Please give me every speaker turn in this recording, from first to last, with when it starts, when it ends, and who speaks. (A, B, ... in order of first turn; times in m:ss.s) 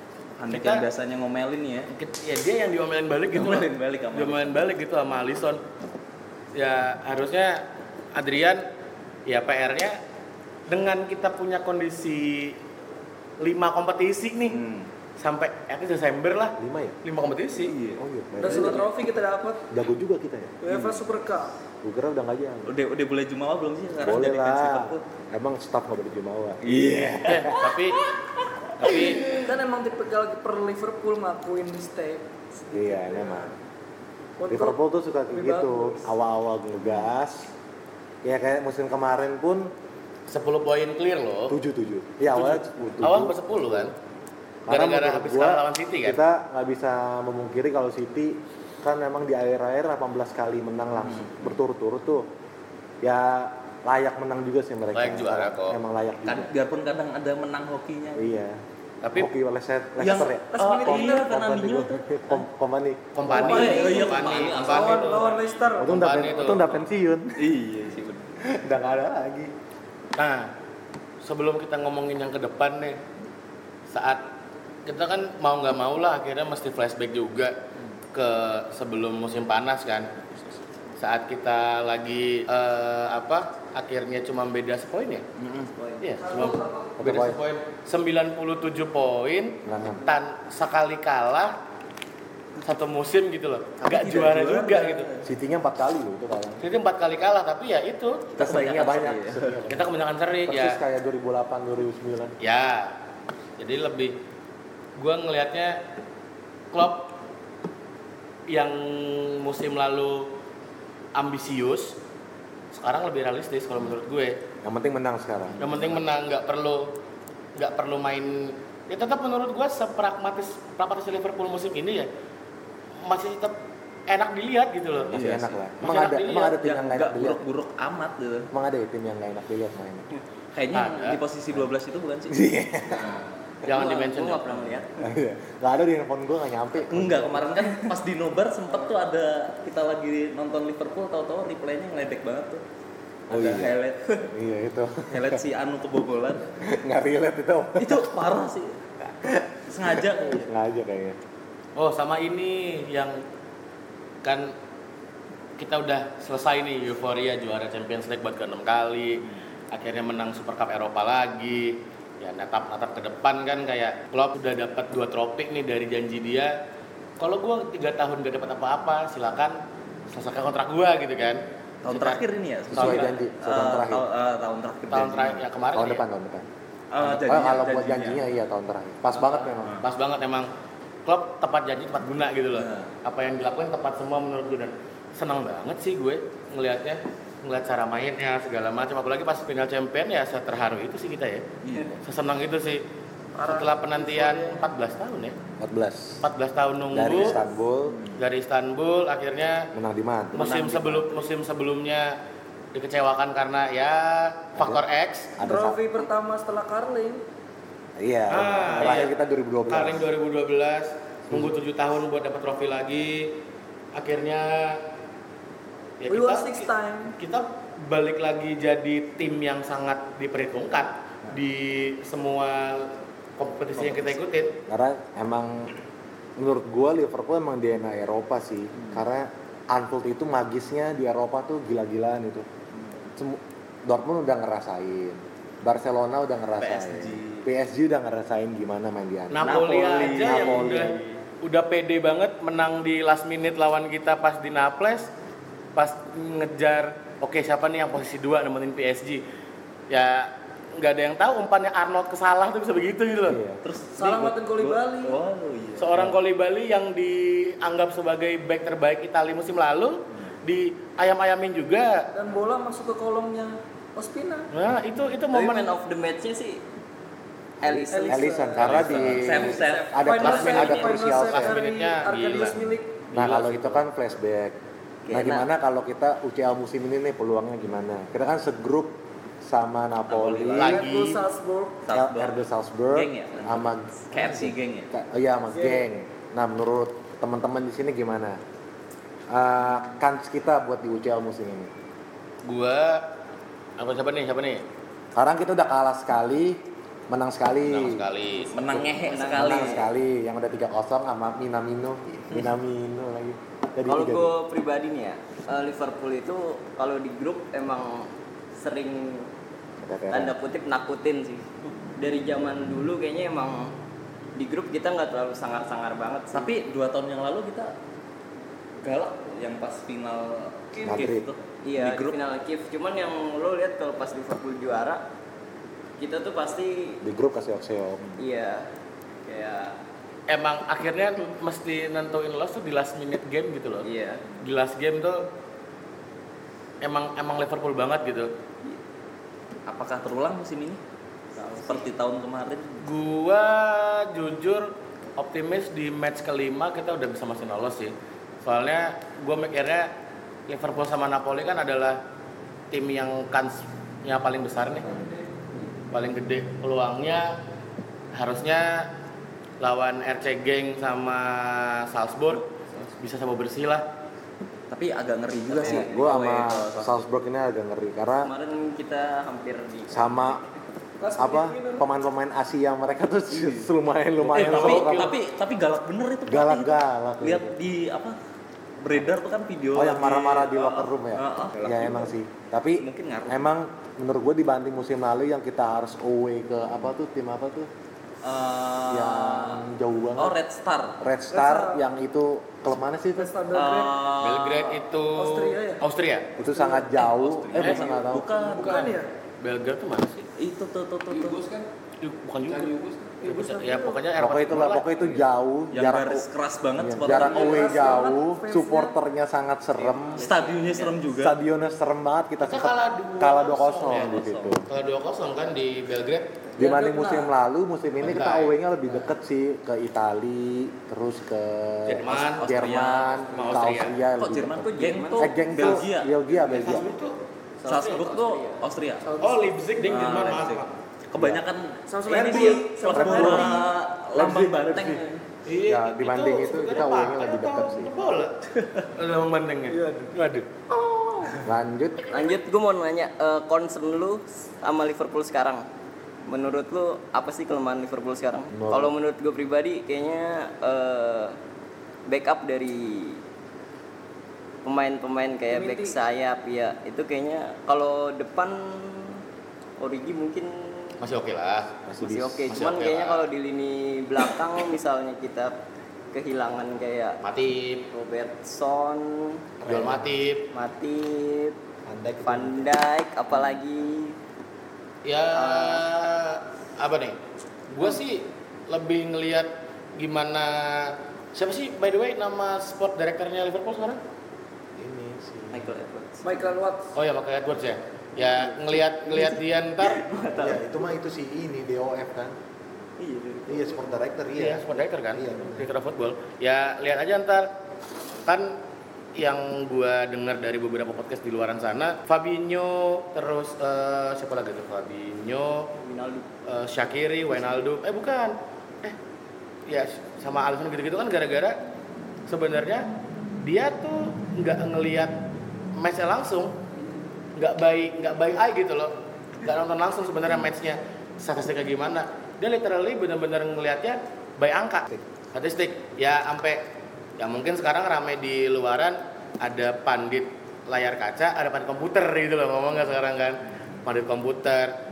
0:00.4-0:01.9 A
0:00.5-0:00.8 B
0:01.9-0:05.6 B
0:03.3-0:04.8 A
0:06.5-0:07.6 B
0:08.1-0:08.6 B
0:09.3-0:10.0 B
0:10.7-0:12.6 B
0:13.4-0:14.6 B
0:14.5-0:14.9 A
0:15.2-0:17.7 B
0:16.6-0:17.0 C
0:17.5-0:18.8 A
0:18.0-0:18.9 C
0:18.4-0:19.7 D
0:19.7-0:20.8 C
0:20.6-0:21.5 D
0:21.8-0:22.7 C
0:22.6-0:25.0 A
0:24.0-0:27.7 C
0:26.6-0:28.1 A
0:27.2-0:28.0 B
0:28.8-0:29.2 B
0:28.8-0:29.2 C
0:28.9-0:33.5 D
0:32.7-0:33.5 C
0:34.4-0:34.8 D
0:34.5-0:37.5 C
0:35.3-0:36.1 D
0:38.2-0:39.7 C
0:40.3-0:41.6 B
0:41.5-0:43.9 C
0:42.3-0:43.9 B
0:44.7-0:52.3 C
0:44.7-0:46.2 B
0:51.0-0:51.5 A
0:53.0-0:56.5 C
0:54.9-0:55.8 B
0:56.2-0:58.3 A
0:58.1-0:58.6 C
0:59.0-0:59.3 B
0:59.1-1:03.8 C
1:00.0-1:02.4 A
1:00.5-1:01.2 D
1:03.1-1:05.2 B
1:03.3-1:06.0 D
1:03.4-1:05.8 A
1:05.8-1:07.5 C
1:05.8-1:06.6 B
1:07.4-1:08.3 A
1:08.4-1:09.5 C
1:10.2-1:10.5 B
1:11.2-1:13.0 B
1:13.9-1:14.2 B
1:14.8-1:17.5 B
1:18.1-1:20.2 B
1:21.0-1:25.2 B
1:25.4-1:25.7 A
1:26.0-1:31.5 B
1:26.2-1:27.0 D
1:27.0-1:27.4 C
1:29.6-1:30.1 C
1:32.6-1:35.1 B
1:33.8-1:35.3 A
1:35.2-1:36.6 C
1:36.6-1:38.6 B
1:38.3-1:39.5 A
1:38.4-1:39.9 C
1:39.7-1:40.8 B
1:40.5-1:42.3 C
1:42.4-1:42.9 B
1:43.6-1:44.2 B
1:45.0-1:45.8 B
1:46.7-1:47.1 B
1:48.5-1:50.3 B
1:51.1-1:52.0 B
1:52.7-1:54.4 B
1:54.6-1:55.6 C
1:55.6-1:57.0 B
1:57.6-2:02.1 B
2:03.0-2:05.2 B
2:05.1-2:07.4 C
2:05.1-2:05.7 A
2:05.8-2:06.6 B
2:06.4-2:08.5 A
2:08.5-2:10.1 C
2:10.5-2:12.4 A
2:10.7-2:11.2 B
2:12.3-2:13.1 C
2:12.9-2:13.3 E
2:13.6-2:14.6 B
2:13.7-2:15.0 F
2:15.0-2:17.6 C
2:16.8-2:22.6 A
2:23.3-2:24.3 A
2:23.3-2:23.8 C
2:24.3-2:25.4 C
2:25.1-2:26.5 A
2:26.6-2:28.2 C
2:27.8-2:28.8 A
2:29.2-2:31.2 C
2:29.7-2:30.5 A
2:31.8-2:33.2 B
2:34.2-2:34.5 B
2:35.6-2:46.5 B
2:47.2-2:49.6 B
2:50.1-2:53.1 B
2:51.8-2:55.4 A
2:52.7-2:54.0 C
2:54.9-2:56.0 B
2:55.7-2:56.5 C
2:56.9-2:58.2 A
2:57.0-2:59.8 C
2:59.5-2:59.8 A
2:59.8-3:00.5 B
3:01.0-3:11.4 B
3:02.5-3:02.9 A
3:11.6-3:12.0 A
3:12.0-3:12.8 B
3:13.3-3:14.7 D
3:13.4-3:15.4 B
3:15.6-3:16.2 C
3:16.2-3:17.4 B
3:16.9-3:18.0 C
3:17.9-3:18.2 A
3:18.2-3:19.7 B
3:19.7-3:20.5 C
3:20.3-3:22.1 B
3:20.3-3:21.3 A
3:22.7-3:25.3 B
3:24.6-3:24.8 C
3:25.4-3:25.8 C
3:25.4-3:27.2 D
3:28.0-3:30.1 C
3:28.3-3:29.1 B
3:29.7-3:33.4 B
3:31.3-3:31.6 C
3:33.9-3:34.8 B
3:36.0-3:44.6 B
3:36.1-3:37.1 D
3:44.7-3:45.7 C
3:46.4-3:52.4 C
3:53.2-4:01.0 C
3:56.6-3:57.5 A
3:59.3-4:05.1 B
3:59.4-4:01.2 A
4:05.7-4:09.2 B
4:09.9-4:13.4 B
4:13.2-4:13.6 C
4:13.6-4:16.1 A
4:14.0-4:15.2 D
4:15.8-4:22.1 B
4:22.1-4:24.5 D
4:24.5-4:25.7 B
4:25.3-4:26.6 F
4:27.6-4:31.6 C
4:27.6-4:28.4 F
4:27.9-4:33.1 D
4:28.5-4:31.1 A
4:30.2-4:32.6 B
4:33.1-4:33.7 B
4:33.1-4:34.5 C
4:35.0-4:35.5 F
4:35.1-4:40.8 C
4:40.1-4:40.6 A
4:40.6-4:41.2 B
4:40.6-4:41.9 D
4:41.9-4:44.9 A
4:41.9-4:48.4 C
4:45.5-4:45.8 D
4:49.3-4:51.7 C
4:52.4-4:53.0 B
4:53.8-4:54.6 B
4:55.1-4:58.0 C
4:57.6-4:58.8 B
4:58.5-4:59.9 A
4:58.8-4:59.9 F
4:59.3-5:04.3 C
5:03.9-5:09.3 F
5:09.8-5:10.3 C
5:10.1-5:13.7 F
5:14.4-5:16.5 F
5:16.3-5:17.7 A
5:18.8-5:22.2 A
5:20.8-5:21.3 C
5:21.6-5:25.0 F
5:26.0-5:27.0 F
5:27.0-5:28.2 C
5:28.2-5:28.7 F
5:29.2-5:29.7 F
5:30.3-5:33.9 B
5:33.8-5:34.2 F
5:34.4-5:35.2 B
5:36.8-5:38.3 B
5:39.7-5:40.8 A
5:41.4-5:41.9 F
5:41.5-5:42.9 A
5:42.8-5:49.9 B
5:50.5-5:52.0 B
5:52.7-5:55.0 B
5:55.9-5:57.4 B
5:58.1-5:58.9 B
5:59.6-6:02.4 B
6:02.3-6:02.9 A
6:03.0-6:03.8 B
6:04.7-6:07.0 A
6:05.5-6:08.3 C
6:08.2-6:10.5 F
6:09.9-6:10.4 C
6:11.0-6:11.8 D
6:11.2-6:15.1 C
6:13.3-6:13.7 A
6:14.2-6:18.2 A
6:14.3-6:15.1 B
6:16.3-6:17.6 C
6:18.8-6:22.1 A
6:19.7-6:27.7 C
6:22.8-6:23.5 A
6:28.2-6:29.6 A
6:28.9-6:30.4 C
6:30.2-6:31.0 A
6:31.0-6:33.3 C
6:31.3-6:31.8 D
6:33.1-6:34.0 D
6:33.5-6:34.8 A
6:34.2-6:36.4 B
6:35.1-6:35.8 D
6:36.4-6:38.3 C
6:36.4-6:36.9 D
6:36.9-6:39.0 A
6:38.4-6:39.1 D
6:39.4-6:40.3 B
6:40.4-6:41.4 A
6:41.0-6:41.6 E
6:42.0-6:44.9 B
6:42.5-6:43.5 E
6:43.3-6:44.0 D
6:44.2-6:50.2 C
6:45.7-6:48.0 A
6:47.1-6:49.0 D
6:49.8-6:51.0 F
6:50.1-6:51.4 A
6:51.2-6:54.6 C
6:52.4-6:56.4 B
6:53.9-6:54.6 A
6:56.6-6:57.3 D
6:56.6-7:06.9 C
6:58.0-6:58.6 B
7:01.8-7:02.5 B
7:02.1-7:03.2 A
7:03.3-7:04.0 B
7:04.2-7:06.8 A
7:04.6-7:05.8 F
7:06.4-7:07.2 B
7:07.6-7:08.7 F
7:07.6-7:09.2 A
7:09.0-7:09.6 D
7:09.2-7:10.7 B
7:09.8-7:15.2 A
7:11.1-7:11.4 C
7:11.9-7:13.7 D
7:12.1-7:15.0 C
7:15.4-7:18.4 B
7:15.6-7:17.9 C
7:18.9-7:20.5 B
7:19.7-7:20.1 D
7:20.7-7:21.4 D
7:21.4-7:22.0 C
7:22.1-7:25.6 F
7:26.2-7:31.4 F
7:28.5-7:28.9 C
7:32.1-7:33.2 F
7:34.6-7:39.2 F
7:35.5-7:36.0 D
7:39.8-7:41.0 F
7:41.0-7:41.7 B
7:41.8-7:42.5 C
7:42.0-7:45.5 F
7:42.5-7:43.2 B
7:46.1-7:47.2 F
7:47.2-7:47.9 B
7:47.9-7:49.4 F
7:49.6-7:50.1 C
7:49.6-7:50.5 B
7:50.5-7:51.6 F
7:51.8-7:52.7 C
7:52.2-7:54.2 F
7:55.0-7:57.2 B
7:55.3-7:55.8 F
7:57.7-8:04.0 B
8:04.8-8:05.7 C
8:05.5-8:06.2 F
8:06.2-8:06.9 D
8:06.9-8:10.0 B
8:08.2-8:10.6 F
8:10.4-8:12.3 C
8:13.0-8:13.9 F
8:13.5-8:15.7 C
8:14.4-8:17.5 B
8:18.2-8:18.5 B
8:19.2-8:25.7 B
8:25.8-8:26.3 F
8:26.4-8:29.0 B
8:29.7-8:31.6 B
8:32.3-8:32.9 B
8:33.4-8:35.1 B
8:35.8-8:36.6 B
8:37.4-8:46.6 B
8:47.2-8:54.7 B